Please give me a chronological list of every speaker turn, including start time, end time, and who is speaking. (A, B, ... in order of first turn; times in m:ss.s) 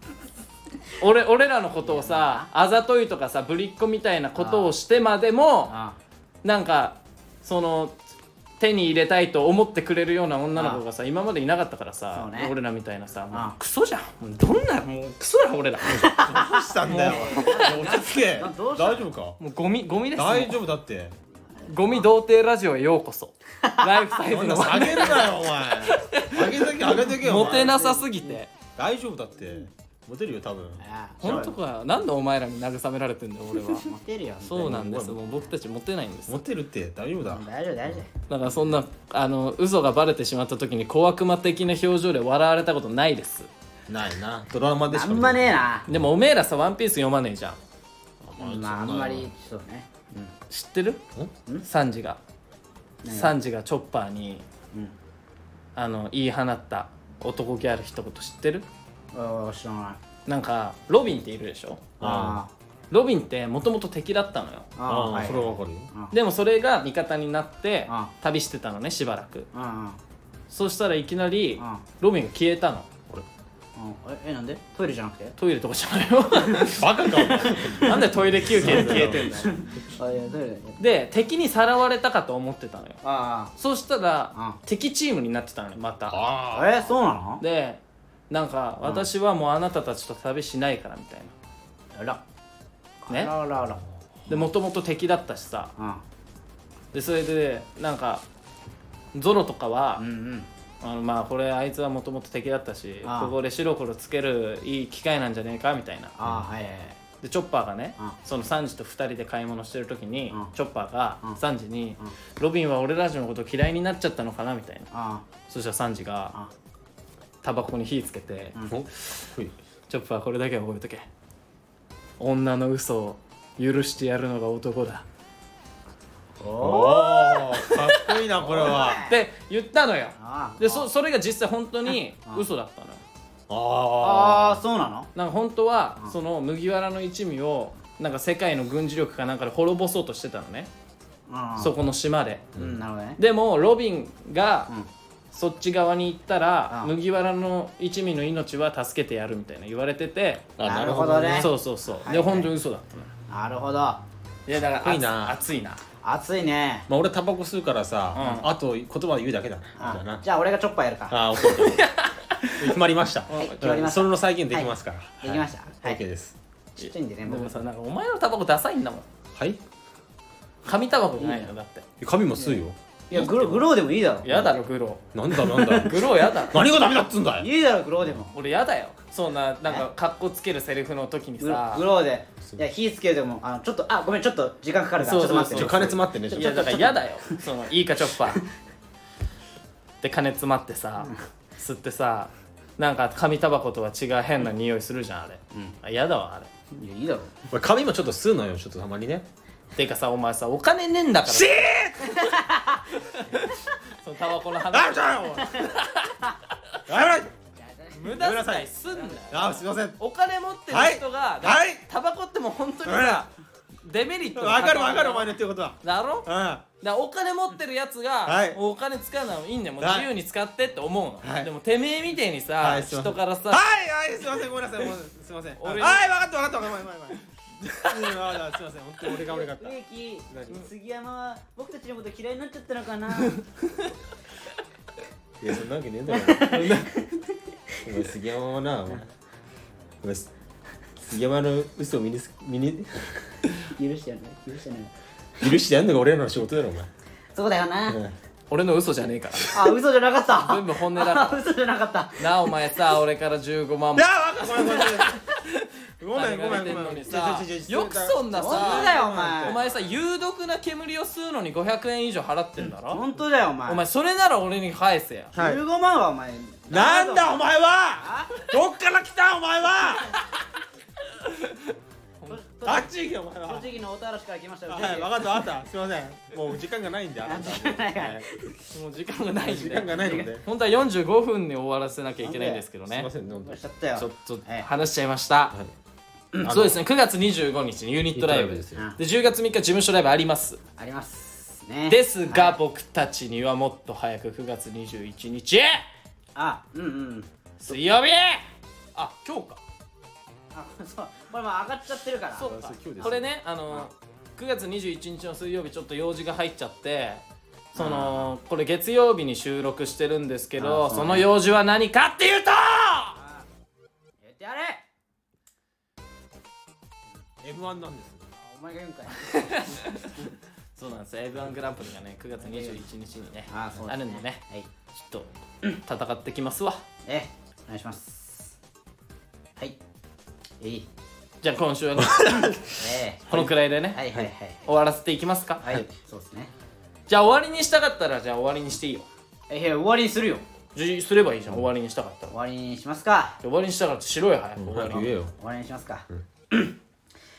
0:01.0-0:05.7 A
0:01.8-0:02.5 B
0:04.4-0:04.7 B
0:05.7-0:06.0 B
0:06.4-0:08.0 A
0:08.6-0:16.2 A
0:10.5-0:10.8 B
0:12.1-0:12.5 B
0:13.3-0:13.6 B
0:15.9-0:19.4 C
0:16.0-0:19.1 B
0:16.8-0:18.2 A
0:19.4-0:20.6 A
0:20.1-0:21.2 C
0:21.6-0:22.0 B
0:21.6-0:28.5 A
0:23.6-0:23.9 B
0:24.2-0:27.8 C
0:27.0-0:28.4 B
0:28.8-0:31.5 C
0:30.8-0:31.5 B
0:31.2-0:33.9 A
0:33.6-0:34.8 B
0:34.4-0:36.4 A
0:34.6-0:35.2 C
0:36.3-0:38.0 C
0:37.3-0:38.1 B
0:38.3-0:43.5 A
0:43.9-0:46.1 C
0:44.9-0:45.8 B
0:45.9-0:47.6 A
0:48.2-0:49.3 C
0:48.4-0:50.4 B
0:50.5-0:51.0 A
0:51.6-0:52.2 A
0:53.0-0:53.3 B
0:53.1-0:54.4 A
0:55.8-0:58.6 A
0:59.1-1:00.0 B
1:00.2-1:01.9 A
1:02.0-1:02.4 C
1:02.0-1:02.5 B
1:02.9-1:04.7 A
1:04.8-1:06.1 B
1:04.8-1:05.9 C
1:06.1-1:09.5 A
1:09.5-1:10.0 B
1:10.5-1:12.9 A
1:13.8-1:15.4 B
1:15.4-1:17.0 A
1:16.5-1:17.9 B
1:16.8-1:19.2 C
1:17.7-1:19.6 A
1:18.6-1:20.8 B
1:20.8-1:23.0 A
1:23.0-1:23.5 B
1:23.6-1:26.2 A
1:26.1-1:26.9 C
1:26.5-1:27.4 B
1:27.4-1:31.3 A
1:28.8-1:29.1 B
1:31.9-1:32.2 B
1:33.0-1:34.5 B
1:34.3-1:35.7 A
1:35.8-1:36.0 B
1:36.9-1:38.2 A
1:39.1-1:40.0 A
1:40.0-1:40.5 B
1:40.8-1:46.1 A
1:43.0-1:43.3 B
1:46.2-1:47.0 B
1:47.2-1:54.9 A
1:54.9-1:55.2 B
1:55.5-1:56.4 A
1:57.4-1:58.6 A
1:58.7-1:59.5 C
1:59.9-2:01.1 A
2:02.2-2:05.0 A
2:06.4-2:07.4 B
2:06.6-2:09.0 C
2:07.6-2:13.0 A
2:08.4-2:09.2 B
2:10.2-2:10.9 B
2:13.5-2:14.6 C
2:14.0-2:15.1 B
2:15.1-2:20.7 A
2:21.3-2:21.7 B
2:21.6-2:22.4 A
2:22.5-2:22.8 C
2:22.5-2:23.2 B
2:23.2-2:24.7 A
2:25.3-2:30.5 A
2:30.6-2:31.5 C
2:30.6-2:32.5 B
2:31.3-2:33.1 A
2:33.3-2:34.0 B
2:34.5-2:35.8 A
2:34.8-2:35.4 C
2:36.0-2:36.9 B
2:36.9-2:40.2 C
2:38.1-2:38.4 A
2:38.2-2:38.4 B
2:39.8-2:41.2 B
2:41.1-2:41.8 C
2:41.4-2:42.7 A
2:42.6-2:46.4 C
2:43.3-2:43.6 A
2:43.4-2:46.0 B
2:46.8-2:47.6 B
2:46.8-2:49.1 A
2:49.3-2:49.6 C
2:50.6-2:51.8 A
2:51.2-2:51.5 B
2:52.0-2:53.6 C
2:52.4-2:54.3 B
2:53.2-2:53.5 A
2:54.2-2:54.5 C
2:54.2-2:56.6 A
2:55.1-2:57.5 C
2:57.4-2:58.3 B
2:58.3-3:01.8 A
3:01.4-3:07.4 B
3:05.0-3:08.4 A
3:05.0-3:06.9 C
3:10.0-3:16.5 A
3:16.7-3:17.4 B
3:17.5-3:19.2 C
3:19.8-3:26.2 A
3:21.3-3:22.2 C
3:22.2-3:22.8 B
3:24.7-3:25.7 C
3:26.9-3:27.3 C
3:27.6-3:28.0 B
3:27.9-3:33.3 A
3:28.1-3:30.0 C
3:30.7-3:31.8 C
3:32.8-3:33.2 C
3:33.8-3:36.3 A
3:34.3-3:36.6 C
3:36.8-3:43.6 A
3:38.2-3:38.6 C
3:39.8-3:40.1 C
3:41.2-3:41.5 C
3:42.6-3:47.2 C
3:45.6-3:46.1 A
3:47.6-3:47.9 A
3:47.8-3:49.8 C
3:49.3-3:53.4 B
3:50.3-3:50.7 C
3:53.3-3:53.9 A
3:55.4-3:56.5 C
3:56.1-3:57.1 B
3:56.4-3:57.0 A
3:57.8-3:59.1 C
4:00.0-4:00.3 C
4:01.0-4:03.3 C
4:03.7-4:04.9 B
4:05.4-4:06.9 C
4:07.3-4:08.0 B
4:07.9-4:08.2 C
4:08.5-4:09.5 A
4:09.5-4:12.3 B
4:10.4-4:11.4 A
4:12.2-4:23.0 A
4:14.0-4:15.2 C
4:16.0-4:19.7 C
4:18.3-4:19.6 B
4:22.9-4:23.8 B
4:23.6-4:25.3 A
4:25.3-4:25.6 C
4:25.3-4:27.4 B
4:26.7-4:30.2 C
4:28.0-4:28.4 B
4:31.2-4:32.4 A
4:32.3-4:35.3 B
4:32.6-4:33.6 C
4:34.7-4:38.3 C
4:37.2-4:38.6 B
4:38.7-4:43.1 A
4:39.4-4:40.4 C
4:40.0-4:40.3 B
4:42.2-4:42.6 B
4:42.9-4:43.6 C
4:43.4-4:44.7 B
4:44.0-4:45.5 A
4:46.4-4:46.8 C
4:46.4-4:50.6 A
4:48.1-4:48.9 C
4:50.8-4:52.6 B
4:51.9-4:55.8 A
4:56.3-4:57.3 B
4:57.6-4:58.4 A
4:58.9-4:59.6 A
5:00.5-5:02.5 B
5:02.4-5:13.2 A
5:02.4-5:03.3 C
5:07.7-5:08.3 B
5:10.6-5:11.3 B
5:13.2-5:13.5 B
5:14.2-5:14.8 B
5:17.4-5:18.3 C
5:18.4-5:20.1 B
5:19.2-5:26.8 A
5:23.5-5:24.7 B
5:27.0-5:28.6 B
5:30.6-5:30.9 B
5:31.4-5:32.6 A
5:32.2-5:32.5 C
5:32.7-5:34.7 B
5:33.3-5:34.0 A
5:34.6-5:35.6 A
5:35.6-5:36.5 B
5:37.1-5:39.1 A
5:39.5-5:40.4 B
5:40.7-5:42.3 A
5:42.3-5:43.4 B
5:43.4-5:45.1 A
5:44.6-5:45.3 C
5:45.4-5:46.8 B